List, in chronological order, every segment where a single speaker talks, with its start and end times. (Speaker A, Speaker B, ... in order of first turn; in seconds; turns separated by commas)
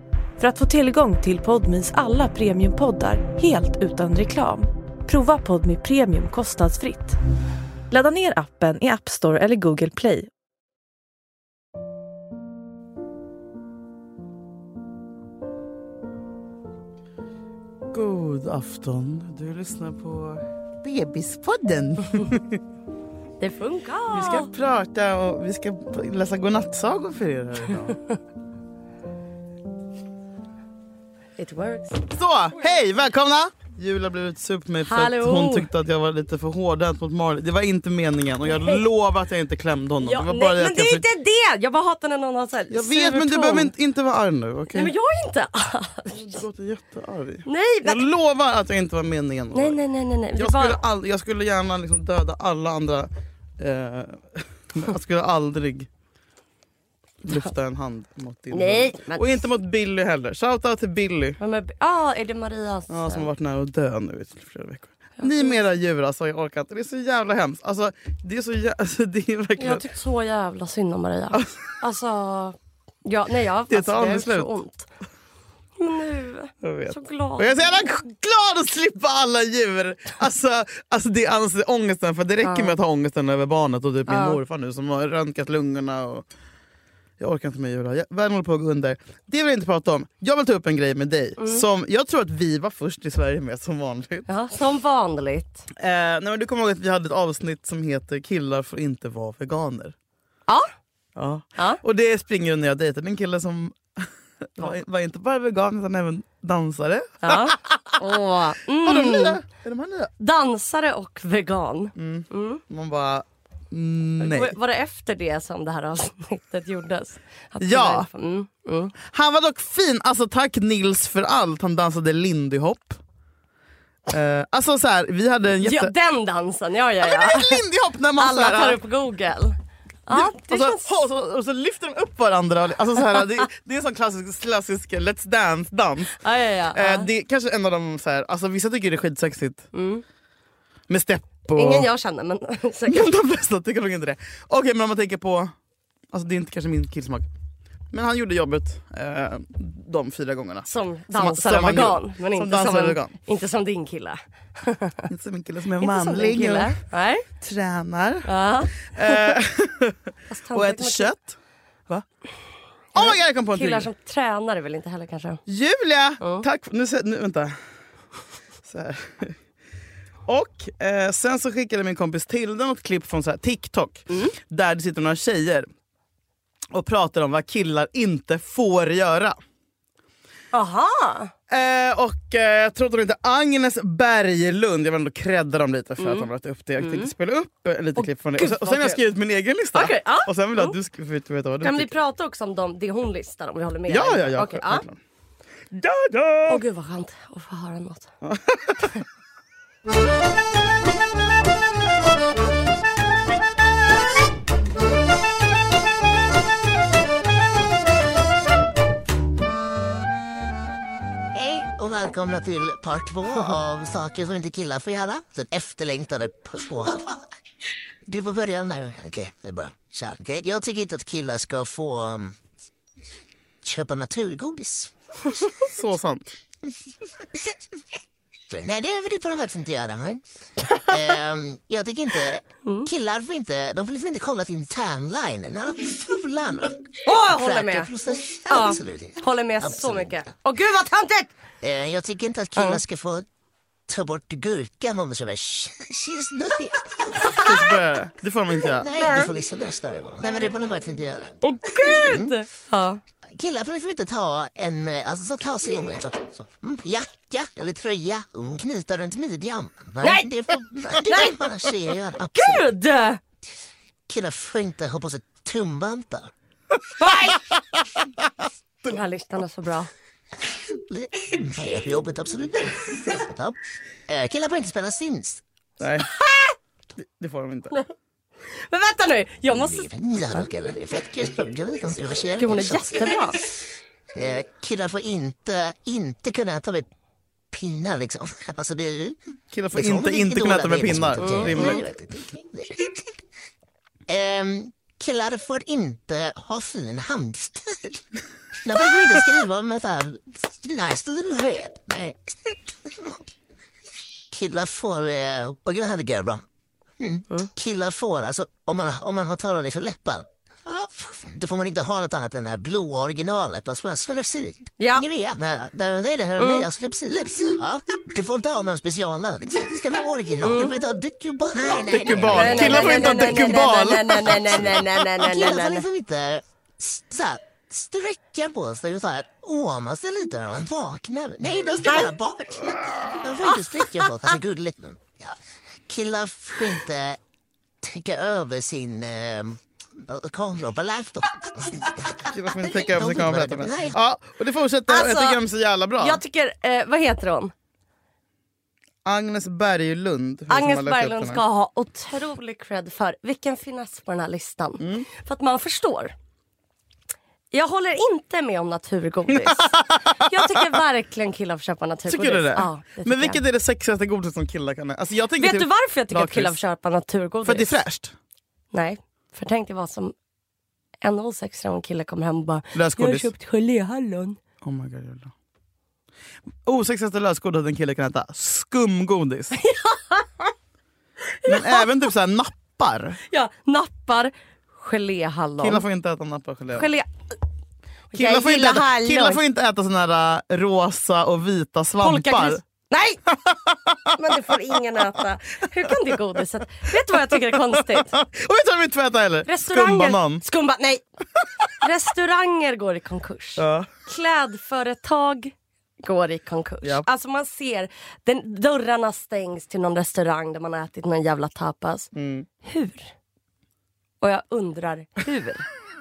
Speaker A: 0.4-7.2, Speaker A: 7.9-10.3, Speaker B: 17.9-22.6, Speaker C: 23.4-24.5, Speaker B: 24.1-28.0, Speaker C: 31.4-32.0, Speaker B: 32.1-41.0, Speaker C: 34.8-35.7, Speaker C: 38.5-38.8, Speaker C: 40.0-43.7, Speaker B: 42.7-44.9, Speaker C: 44.7-46.4, Speaker B: 46.1-49.8, Speaker C: 47.4-48.1, Speaker C: 49.5-50.8, Speaker B: 50.3-55.9, Speaker B: 57.2-61.4, Speaker C: 58.5-59.4, Speaker C: 61.4-63.3, Speaker B: 62.9-69.8, Speaker C: 65.2-65.6, Speaker C: 69.6-74.9, Speaker B: 73.7-74.5, Speaker C: 75.8-77.8, Speaker B: 76.6-86.2, Speaker C: 82.4-82.8, Speaker C: 84.1-84.4, Speaker B: 87.2-94.3, Speaker C: 91.4-91.6, Speaker C: 94.3-95.7, Speaker B: 95.7-99.9, Speaker B: 101.1-108.0, Speaker C: 107.2-109.4, Speaker B: 108.8-110.1, Speaker C: 110.2-112.6, Speaker B: 111.9-114.5, Speaker C: 114.2-118.9, Speaker B: 117.6-118.1, Speaker B: 119.0-123.0, Speaker B: 124.1-125.9, Speaker C: 125.6-127.6, Speaker B: 127.0-128.8, Speaker C: 128.2-130.9, Speaker B: 130.1-136.1, Speaker C: 136.2-137.1, Speaker B: 136.7-139.7, Speaker C: 139.7-140.0, Speaker B: 140.9-141.9, Speaker C: 141.5-143.1, Speaker B: 142.9-145.5, Speaker B: 146.1-147.3, Speaker B: 147.9-153.1, Speaker C: 150.7-155.1, Speaker B: 155.1-156.8, Speaker C: 155.8-157.3, Speaker B: 157.4-160.0, Speaker C: 158.2-159.3, Speaker C: 160.3-161.1, Speaker B: 160.5-161.3, Speaker B: 162.9-163.9, Speaker C: 162.9-165.4, Speaker B: 165.4-167.6, Speaker C: 166.2-166.5, Speaker B: 168.6-169.3, Speaker B: 170.2-175.7, Speaker B: 176.7-179.4, Speaker C: 180.5-181.3, Speaker B: 181.5-191.9, Speaker C: 186.0-186.3, Speaker C: 186.8-187.1, Speaker C: 188.0-189.0, Speaker C: 189.7-190.7, Speaker C: 191.6-194.8, Speaker B: 193.9-195.0, Speaker B: 195.7-196.6, Speaker C: 196.5-198.1, Speaker B: 198.2-199.0, Speaker D: 211.3-217.3, Speaker D: 218.1-222.3, Speaker D: 223.6-225.3, Speaker B: 225.6-226.3, Speaker D: 228.5-230.2, Speaker D: 230.7-240.1, Speaker C: 232.6-232.9, Speaker C: 237.0-237.9, Speaker C: 238.5-241.3, Speaker D: 241.6-243.2, Speaker C: 242.6-242.8, Speaker D: 243.9-247.5, Speaker B: 247.3-248.9, Speaker D: 248.7-252.3, Speaker C: 249.0-249.3, Speaker C: 251.4-253.0, Speaker D: 253.3-262.6, Speaker C: 260.0-260.3, Speaker C: 261.0-261.4, Speaker C: 262.3-263.2, Speaker D: 264.1-266.3, Speaker C: 267.0-267.4, Speaker C: 268.8-269.9, Speaker D: 270.7-273.6, Speaker D: 274.1-275.4, Speaker B: 275.8-276.1, Speaker C: 276.1-276.5, Speaker B: 277.0-277.7, Speaker C: 278.7-280.4, Speaker D: 279.5-283.5, Speaker C: 282.4-283.4, Speaker D: 284.1-286.9, Speaker D: 287.5-289.2, Speaker B: 289.5-291.8, Speaker D: 289.7-293.2, Speaker C: 291.2-291.8, Speaker D: 294.1-298.0, Speaker D: 298.5-303.2, Speaker D: 304.3-306.4, Speaker D: 307.0-323.8, Speaker C: 314.8-315.1, Speaker C: 316.4-316.7, Speaker C: 320.4-320.7, Speaker B: 321.9-324.9, Speaker C: 322.2-325.8, Speaker D: 324.5-335.4, Speaker C: 331.9-332.1, Speaker C: 333.4-334.4, Speaker D: 335.9-337.2, Speaker D: 337.8-343.9, Speaker B: 342.3-346.2, Speaker C: 344.9-345.4, Speaker C: 346.0-347.5, Speaker B: 349.0-351.4, Speaker C: 350.5-356.1, Speaker B: 354.8-355.1, Speaker C: 357.5-363.4, Speaker B: 359.3-360.8, Speaker B: 362.1-366.6, Speaker C: 365.4-367.8, Speaker B: 367.4-368.1, Speaker C: 368.7-370.1, Speaker C: 371.0-374.4, Speaker B: 372.7-373.3, Speaker B: 374.6-375.3, Speaker B: 376.6-379.6, Speaker C: 379.5-380.5, Speaker C: 381.3-382.0, Speaker B: 381.4-383.2, Speaker C: 383.3-385.8, Speaker B: 385.6-386.9, Speaker C: 386.7-387.1, Speaker C: 388.1-389.4, Speaker B: 388.1-392.6, Speaker C: 392.0-393.3, Speaker B: 393.3-394.3, Speaker C: 394.1-398.1, Speaker B: 395.8-396.4, Speaker B: 397.1-400.4, Speaker C: 399.4-401.0, Speaker C: 401.8-413.1, Speaker B: 403.6-403.9, Speaker B: 412.1-412.5, Speaker C: 414.2-415.7